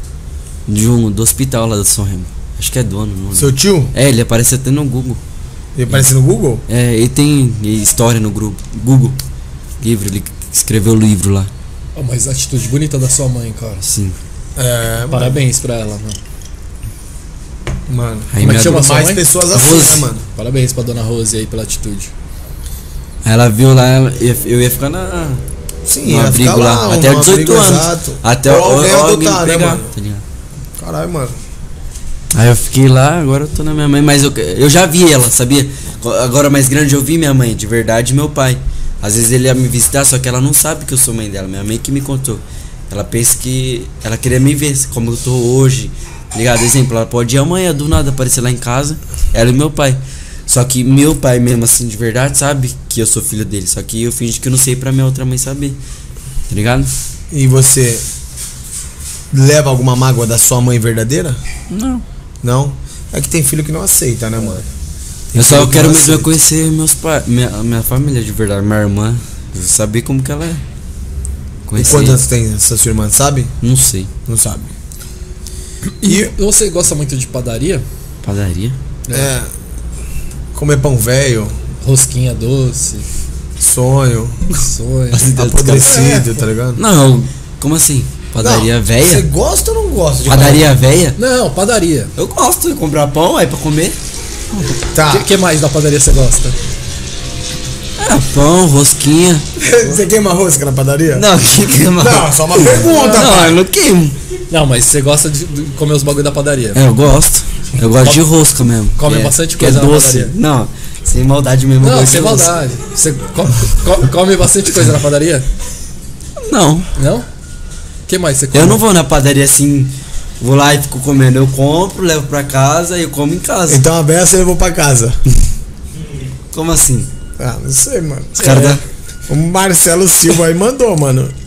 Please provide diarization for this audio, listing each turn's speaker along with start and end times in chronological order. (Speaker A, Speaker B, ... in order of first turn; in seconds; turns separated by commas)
Speaker A: 0.7-5.2, Speaker B: 3.3-3.9, Speaker B: 5.7-6.6, Speaker A: 6.7-9.2, Speaker A: 9.8-11.5, Speaker C: 11.9-13.8, Speaker A: 13.8-14.2, Speaker B: 14.6-15.4, Speaker C: 15.1-16.2, Speaker B: 17.9-20.3, Speaker A: 18.3-18.9, Speaker C: 18.4-19.2, Speaker A: 19.5-20.1, Speaker C: 20.3-22.1, Speaker A: 23.2-25.4, Speaker B: 25.9-29.9, Speaker A: 26.0-30.2, Speaker B: 30.8-31.4, Speaker A: 32.3-55.8, Speaker A: 56.5-56.9, Speaker B: 57.3-58.0, Speaker B: 59.3-61.4, Speaker A: 61.7-62.0, Speaker B: 62.4-64.7, Speaker B: 65.3-66.3, Speaker A: 65.3-70.6, Speaker A: 71.7-72.2, Speaker B: 71.7-73.5, Speaker A: 73.6-74.1, Speaker B: 74.3-74.7, Speaker C: 76.0-77.8, Speaker B: 76.0-76.3, Speaker A: 78.2-78.8, Speaker B: 79.1-79.5, Speaker B: 80.5-81.5, Speaker C: 81.8-83.1, Speaker B: 83.6-84.4, Speaker C: 84.6-85.3, Speaker A: 85.1-86.1, Speaker B: 85.4-86.8, Speaker C: 85.9-86.2, Speaker A: 86.8-89.2, Speaker B: 88.4-90.7, Speaker A: 90.2-91.2, Speaker C: 91.2-92.1, Speaker A: 92.2-94.0, Speaker B: 94.9-95.3, Speaker C: 95.1-96.5, Speaker A: 98.0-99.4, Speaker B: 99.6-101.2, Speaker A: 101.1-104.2, Speaker B: 102.0-103.6, Speaker C: 104.5-106.8, Speaker A: 106.7-112.5, Speaker C: 108.0-108.2, Speaker C: 109.0-110.3, Speaker C: 111.8-115.5, Speaker A: 116.4-116.9, Speaker C: 117.0-117.3, Speaker C: 118.1-118.8, Speaker A: 118.5-123.8, Speaker B: 123.7-125.2, Speaker A: 126.5-127.1, Speaker B: 127.4-128.6, Speaker A: 128.4-128.8, Speaker C: 128.4-128.8, Speaker B: 129.3-131.3